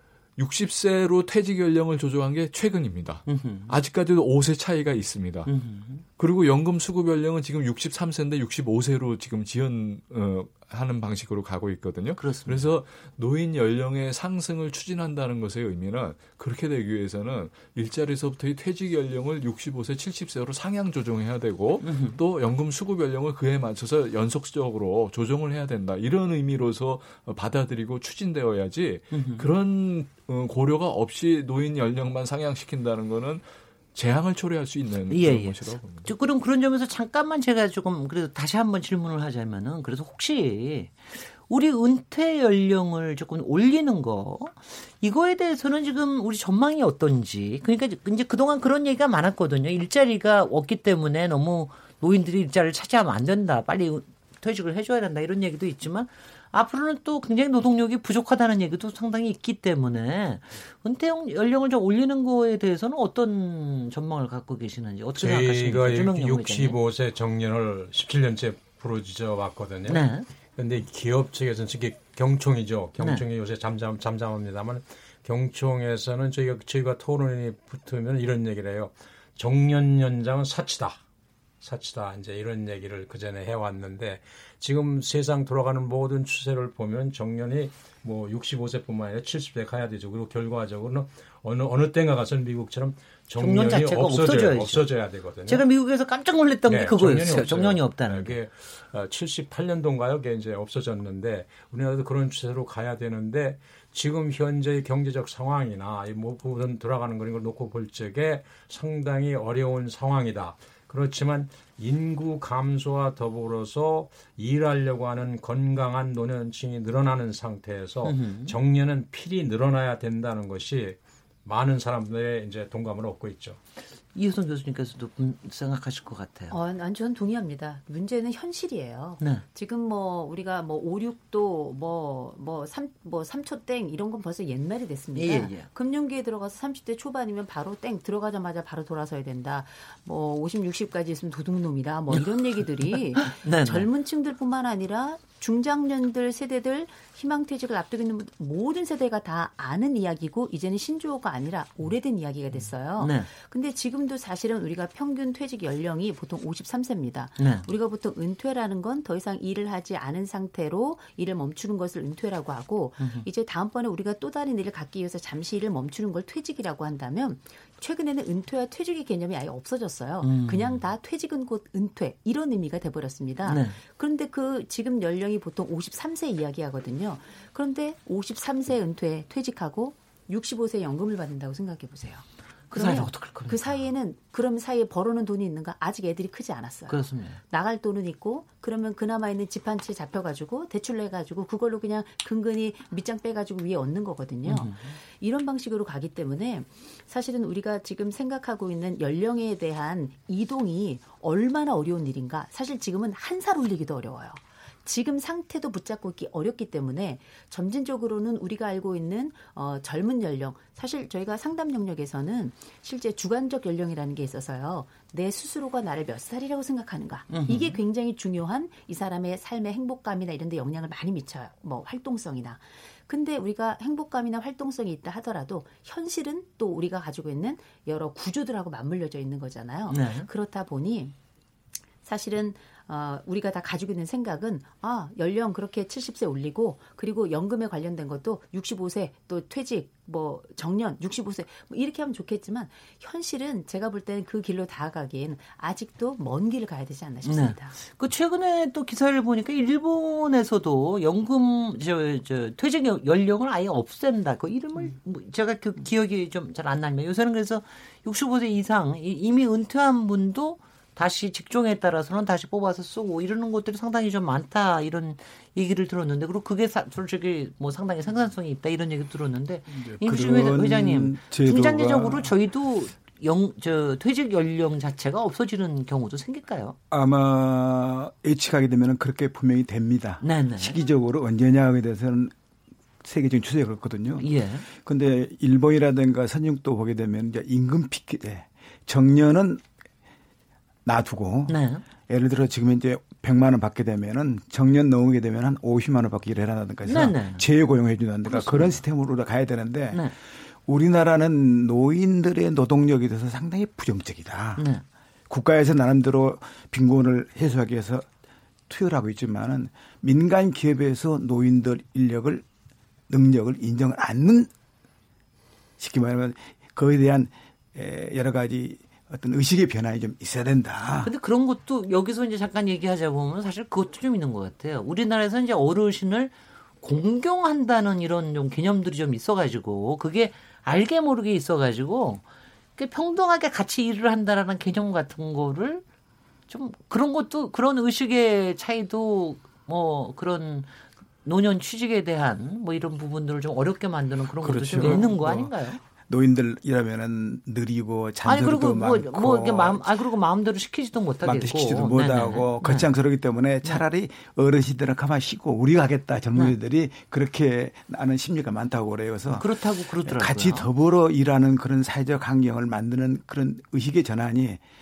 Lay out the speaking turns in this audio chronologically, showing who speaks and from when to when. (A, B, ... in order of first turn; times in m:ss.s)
0:00.4-0:05.5 A
0:03.3-0:03.7 B
0:05.4-0:06.0 B
0:06.2-0:36.1 A
0:12.2-0:12.7 B
0:21.8-0:22.2 B
0:29.1-0:29.5 B
0:35.1-1:06.8 B
1:05.2-1:21.0 C
1:09.9-1:10.2 B
1:21.6-1:35.6 C
1:33.4-1:34.8 B
1:35.5-1:38.3 B
1:36.6-2:03.6 C
1:58.0-1:58.6 B
2:04.1-2:06.6 B
2:06.5-3:51.1 D
2:15.1-2:15.7 B
2:22.1-2:23.9 B
2:33.0-2:33.3 B
2:37.4-2:37.7 B
2:43.0-2:43.2 B
2:50.2-2:50.8 B
2:53.4-2:53.8 B
3:02.7-3:03.8 B
3:06.9-3:07.4 B
3:14.4-3:14.9 B
3:37.3-3:37.8 B
3:49.9-3:50.3 B
3:52.0-4:07.8 D
4:07.2-4:36.8 B
4:29.7-4:32.3 E
4:36.9-4:42.3 E
4:40.2-4:40.8 B
4:43.0-4:49.6 E
4:44.2-4:44.6 B
4:50.8-5:00.1 E
4:51.5-4:51.8 B
4:56.8-4:57.4 B
4:58.3-4:58.8 B
5:00.7-5:04.7 E
5:04.6-5:04.8 B
5:05.3-5:08.1 E
5:08.7-5:12.4 E
5:13.1-5:14.5 E
5:15.8-5:21.1 E
5:21.0-5:32.2 B
5:32.8-5:35.8 B
5:36.5-5:40.7 B
5:41.2-5:45.8 B
5:44.5-5:45.4 A
5:44.5-5:45.5 E
5:46.1-5:49.8 E
5:48.2-5:52.9 B
5:51.2-6:04.6 E
5:59.3-6:00.7 B